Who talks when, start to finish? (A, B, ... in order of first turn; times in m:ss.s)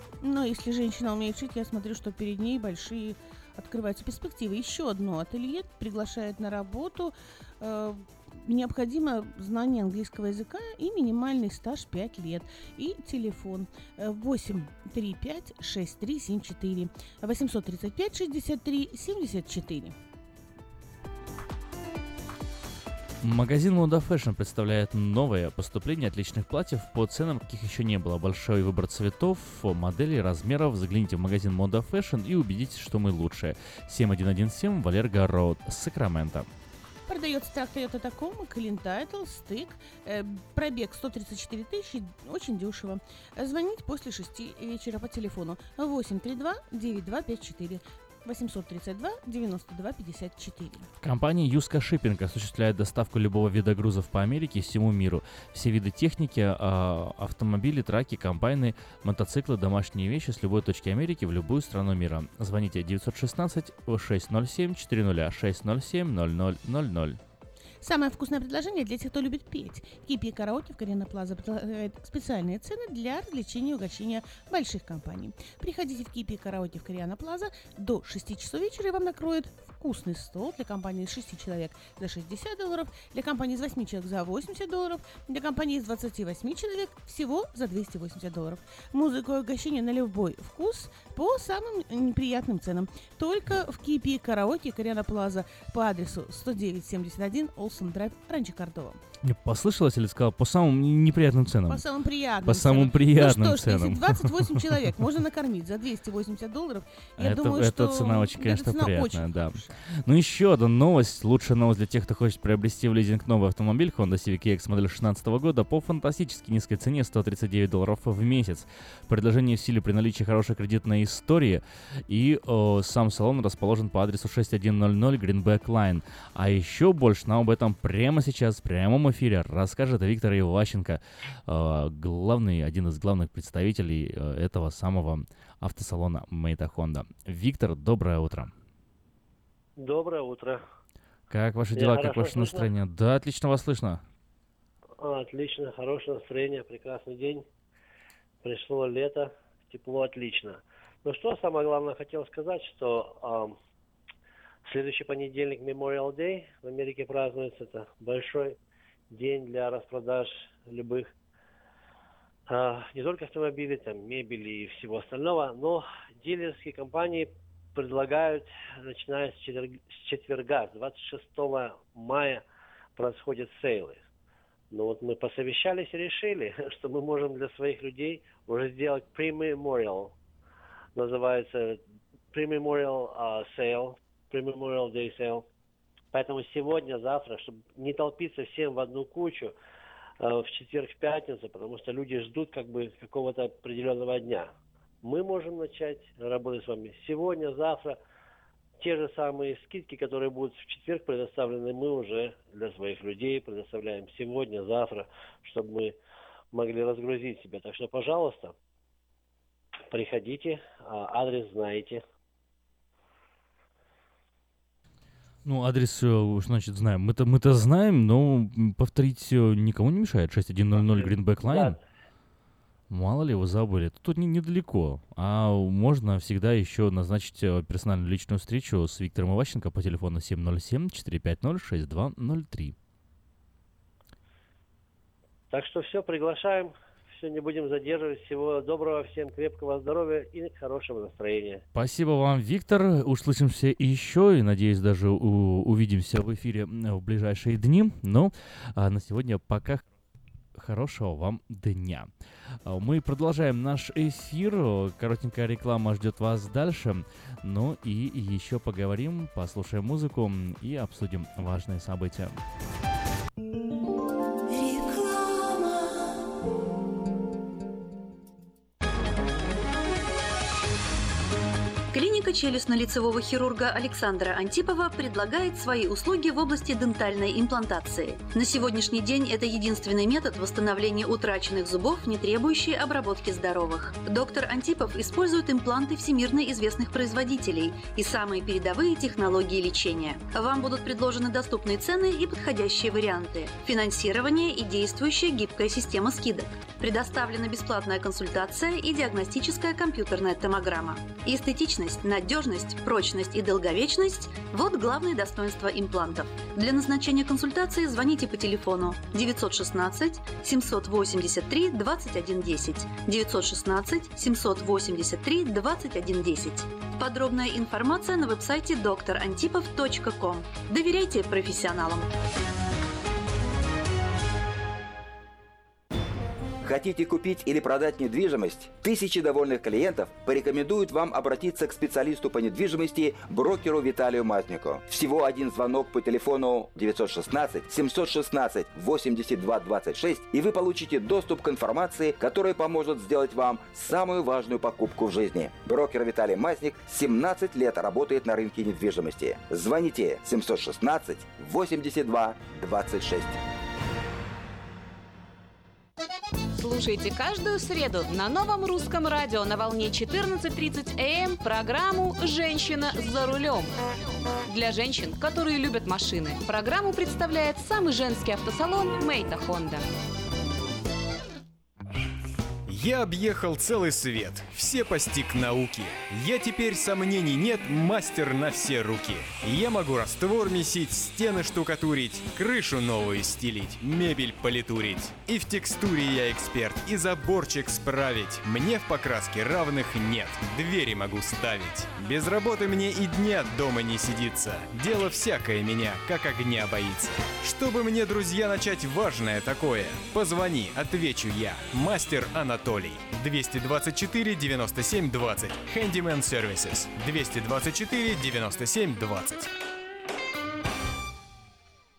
0:00.2-0:20.0 A
0:23.2-0:36.5 B
0:37.1-0:50.9 A
0:51.0-1:07.2 B
1:07.8-1:39.0 A
1:39.2-1:41.8 B
1:41.7-1:49.7 A
1:42.4-1:44.5 B
1:47.2-2:18.5 B
2:19.8-2:20.6 C
2:21.3-2:24.0 B
2:21.7-2:22.7 C
2:25.0-2:27.4 C
2:28.4-2:33.6 C
2:34.7-2:38.6 C
2:39.1-2:41.1 C
2:42.5-2:52.4 C
2:53.0-2:54.0 C
2:54.7-3:00.1 C
3:01.0-3:01.8 C
3:02.3-3:05.4 C
3:06.1-3:09.5 C
3:10.2-3:14.5 C
3:15.0-3:18.0 C
3:18.8-3:25.9 C
3:26.5-3:28.5 C
3:29.9-3:32.0 C
3:35.4-3:41.8 B
3:40.7-3:41.8 C
3:42.9-3:52.8 B
3:55.5-4:01.6 C
4:01.7-4:09.8 B
4:10.6-4:12.1 B
4:12.6-4:22.4 B
4:31.9-5:22.1 D
5:26.6-5:53.3 E
5:56.6-6:03.7 F
6:04.4-6:09.9 F
6:12.7-6:49.5 G